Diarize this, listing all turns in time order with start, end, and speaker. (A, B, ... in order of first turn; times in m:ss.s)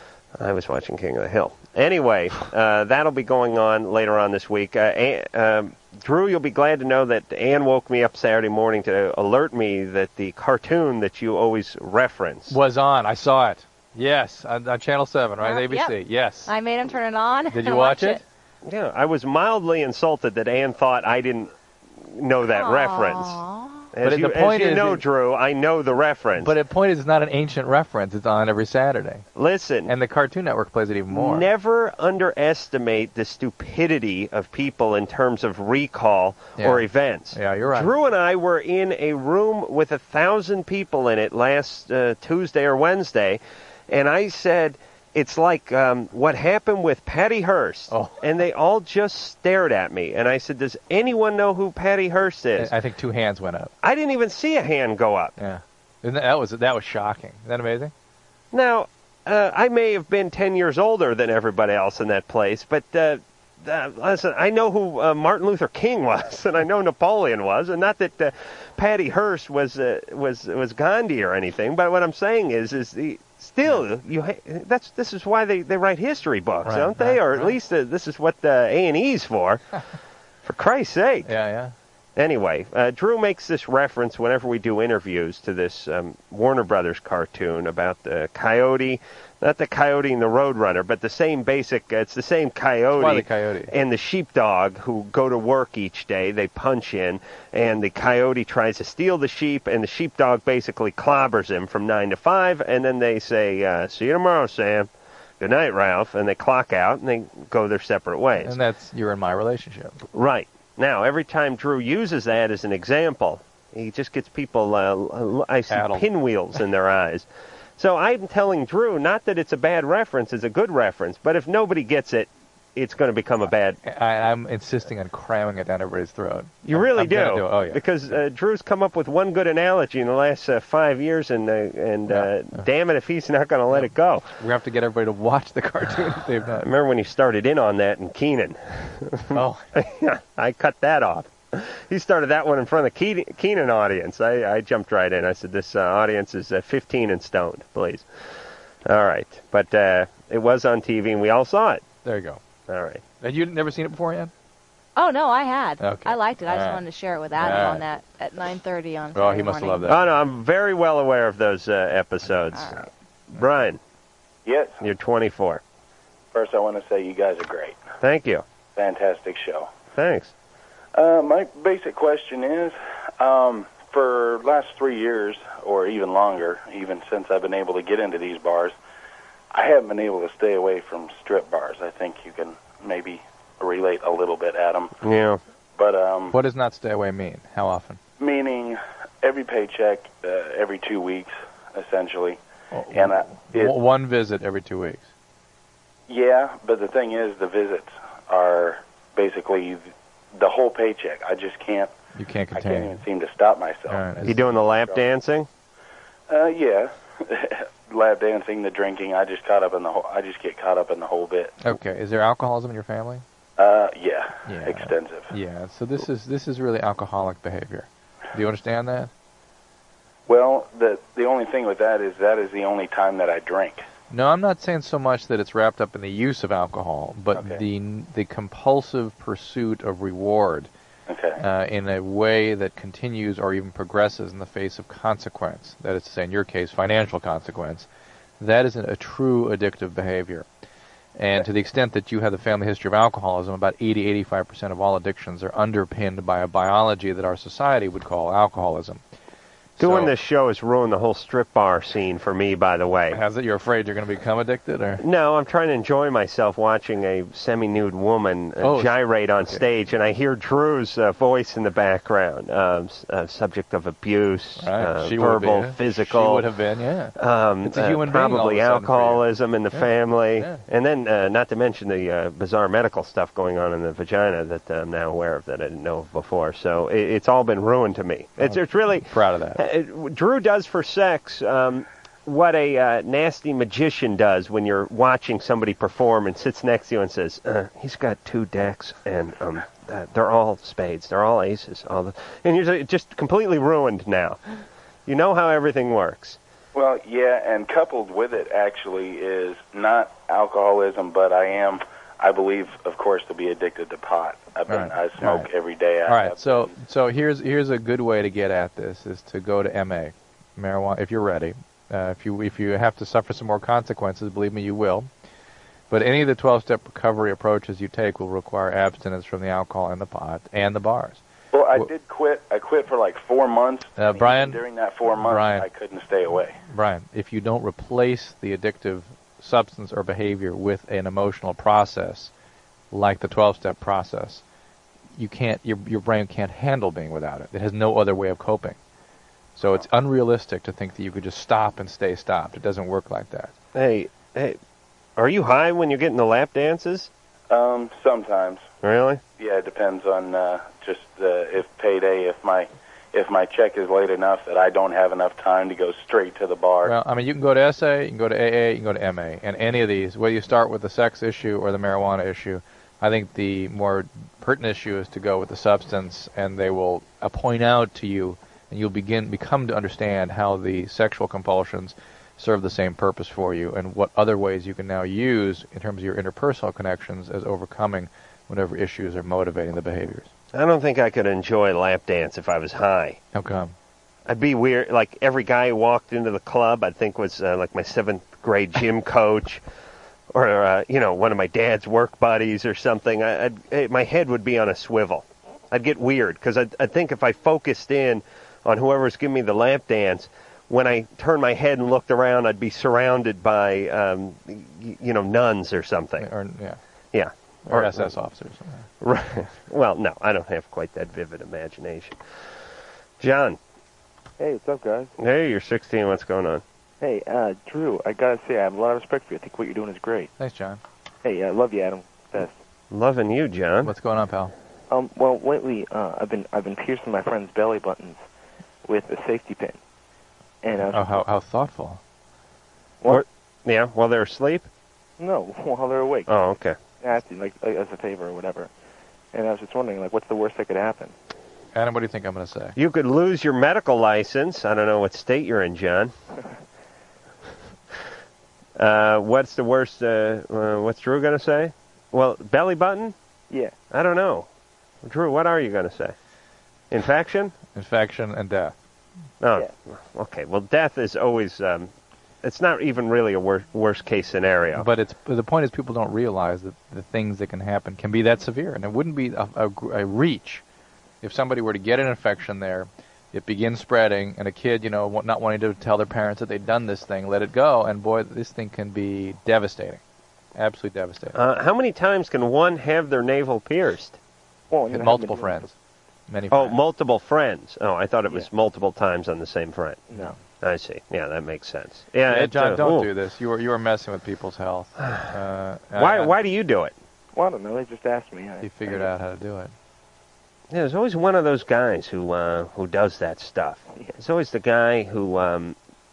0:00.4-0:12.6 A
0:12.5-0:16.5 B
0:15.4-0:18.2 C
0:17.5-0:18.2 B
0:18.6-0:23.4 A
0:22.5-0:23.9 C
0:23.9-0:26.5 A
0:24.0-0:25.0 B
0:26.4-0:29.2 B
0:29.4-0:29.9 A
0:29.9-0:31.4 B
0:31.1-0:52.7 A
0:36.6-0:37.9 B
0:47.9-0:48.2 B
0:52.6-0:53.7 B
0:53.8-0:55.3 A
0:55.4-0:57.9 B
0:58.5-1:19.8 A
1:16.6-1:17.6 B
1:20.4-1:21.3 A
1:21.2-1:21.7 B
1:22.2-1:44.9 A
1:33.0-1:33.7 B
1:45.4-1:48.5 A
1:48.4-1:50.0 B
1:50.1-1:57.2 A
1:55.7-1:56.1 B
1:57.8-2:03.8 A
2:03.8-2:08.2 B
2:06.6-2:14.2 A
2:12.1-2:12.6 B
2:13.7-2:16.6 B
2:16.6-2:28.1 A
2:19.3-2:19.7 B
2:28.8-2:31.8 A
2:32.0-2:32.4 B
2:32.7-2:33.0 A
2:33.2-2:34.3 B
2:35.0-2:39.9 C
2:35.8-2:36.8 B
2:37.4-2:37.8 B
2:39.1-2:40.0 B
2:39.9-2:43.8 A
2:42.5-2:42.9 C
2:44.4-2:44.8 D
2:44.8-2:45.6 A
2:46.3-2:47.8 D
2:48.0-2:48.4 A
2:48.8-2:49.8 D
2:49.9-2:50.3 A
2:50.9-2:58.7 D
2:59.5-3:04.9 D
3:05.0-3:05.4 A
3:05.8-3:06.3 D
3:06.3-3:08.0 B
3:08.2-3:12.4 D
3:12.7-3:15.1 B
3:12.9-3:13.7 D
3:16.1-3:21.9 D
3:22.1-3:23.0 B
3:22.5-3:25.0 D
3:23.9-3:24.4 B
3:24.2-3:25.5 A
3:26.3-3:31.5 D
3:31.6-3:33.2 B
3:33.6-3:35.3 D
3:34.4-3:39.1 B
3:40.3-3:43.8 D
3:44.1-3:50.7 B
3:47.3-3:47.6 D
3:51.1-3:51.4 D
3:51.4-3:57.9 B
3:58.4-4:00.4 B
4:01.2-4:09.0 B
4:09.8-4:10.1 B
4:09.8-4:13.2 A
4:13.1-4:15.0 B
4:15.0-4:26.4 A
4:18.6-4:19.6 B
4:24.6-4:30.6 B
4:27.2-4:54.4 A
4:38.4-4:39.6 B
4:55.1-4:56.4 A
4:56.7-5:06.7 D
5:04.7-5:05.5 B
5:06.0-5:15.1 B
5:15.9-5:21.2 B
5:21.5-5:26.6 D
5:24.0-5:24.6 B
5:25.2-5:25.6 B
5:26.7-5:32.3 B
5:32.9-5:34.4 B
5:35.2-5:38.8 B
5:39.6-5:43.5 B
5:43.7-5:44.6 A
5:45.2-5:47.1 A
5:47.5-5:48.6 D
5:48.8-5:49.2 A
5:49.4-5:56.9 D
5:56.8-6:20.3 B
6:20.5-6:23.2 A
6:23.3-6:23.7 B
6:24.3-6:29.6 A
6:30.3-6:46.3 A
6:46.2-6:46.8 B
6:47.1-6:48.1 A
6:47.6-6:48.9 B
6:49.0-6:52.2 A
6:53.2-6:53.6 A
6:54.4-6:55.1 E
6:55.2-6:56.6 A
6:57.0-7:00.3 E
7:00.4-7:00.8 B
7:01.2-7:02.6 E
7:02.9-7:03.9 A
7:03.8-7:04.5 B
7:04.9-7:08.2 E
7:08.8-7:09.8 E
7:10.6-7:11.2 E
7:10.8-7:12.0 B
7:13.1-7:14.7 A
7:15.2-7:16.3 E
7:16.3-7:16.8 A
7:17.0-7:18.7 E
7:19.3-7:21.1 E
7:21.7-7:22.8 B
7:22.8-7:26.1 A
7:28.8-7:33.1 A
7:33.9-7:34.5 A
7:35.0-7:36.1 A
7:36.9-7:37.5 A
7:37.7-7:38.7 B
7:39.4-7:41.9 A
7:42.4-7:44.8 A
7:44.8-7:50.6 B
7:51.2-8:00.0 B
8:00.6-8:01.4 B
8:01.3-8:04.2 A
8:04.7-8:05.7 E
8:04.9-8:05.7 B
8:06.3-8:06.8 B
8:06.5-8:10.0 A
8:10.1-8:10.4 E
8:10.6-8:13.1 A
8:12.3-8:16.3 B
8:15.0-8:15.3 A
8:16.0-8:16.9 A
8:17.3-8:19.1 E
8:18.6-8:19.7 B
8:20.7-8:25.8 A